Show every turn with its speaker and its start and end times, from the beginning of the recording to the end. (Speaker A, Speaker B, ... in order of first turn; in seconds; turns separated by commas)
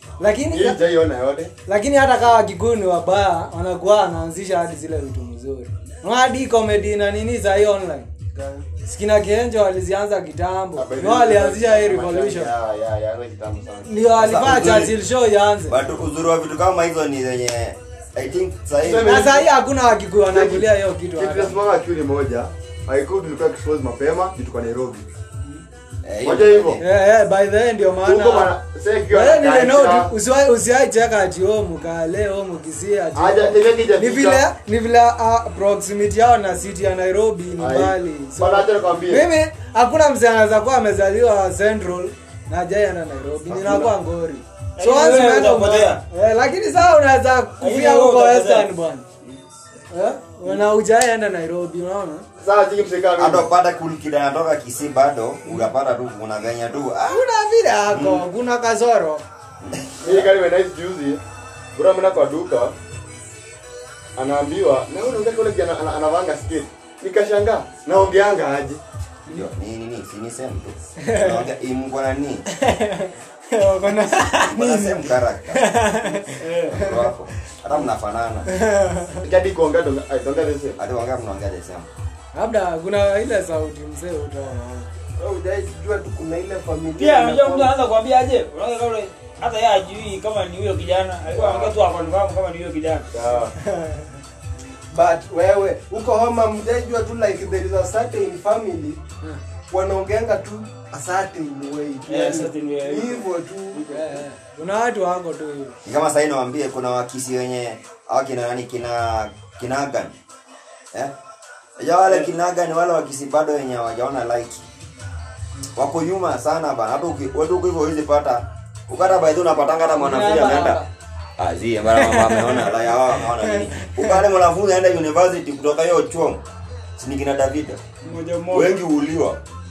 Speaker A: 0.2-0.8, Speaker B: 0.5-1.5, Speaker A: 1.7-8.1, Speaker C: 8.3-8.7, Speaker A: 8.9-12.5, Speaker B: 10.8-14.8, Speaker A: 13.9-15.8, Speaker D: 14.2-14.9, Speaker D: 15.7-19.2, Speaker B: 18.8-19.5, Speaker A: 19.0-21.6, Speaker B: 20.3-25.1, Speaker D: 26.0-26.8, Speaker B: 26.2-26.8, Speaker A: 26.8-28.5, Speaker B: 28.0-30.1, Speaker A: 29.1-49.0, Speaker B: 33.1-34.5, Speaker B: 37.6-39.3, Speaker B: 43.5-43.9, Speaker E: 44.8-46.0, Speaker E: 47.6-48.7, Speaker A: 49.9-52.2, Speaker B: 52.4-53.5, Speaker D: 53.2-57.2, Speaker A: 57.1-59.2, Speaker D: 57.9-58.2, Speaker D: 59.6-60.3, Speaker B: 60.0-61.2, Speaker B: 61.7-62.7, Speaker B: 64.2-68.8, Speaker D: 69.3-72.4, Speaker A: 71.0-71.5, Speaker A: 72.5-77.0, Speaker D: 74.3-75.7, Speaker E: 76.4-76.8, Speaker D: 76.7-78.5, Speaker A: 78.5-79.2, Speaker B: 79.2-80.8, Speaker D: 80.8-81.9, Speaker A: 82.3-84.9, Speaker C: 85.2-87.7, Speaker E: 87.0-93.1, Speaker C: 91.3-91.7, Speaker B: 93.1-93.5, Speaker A: 93.6-94.1, Speaker C: 94.9-99.0, Speaker C: 99.7-103.9, Speaker E: 102.1-104.2, Speaker A: 103.9-105.8, Speaker D: 105.8-110.1, Speaker D: 111.8-114.7, Speaker D: 115.7-120.8, Speaker A: 120.0-120.9, Speaker D: 121.4-126.4, Speaker A: 122.0-122.7, Speaker A: 123.4-124.1, Speaker D: 127.0-127.8, Speaker E: 128.0-128.8, Speaker D: 128.5-129.4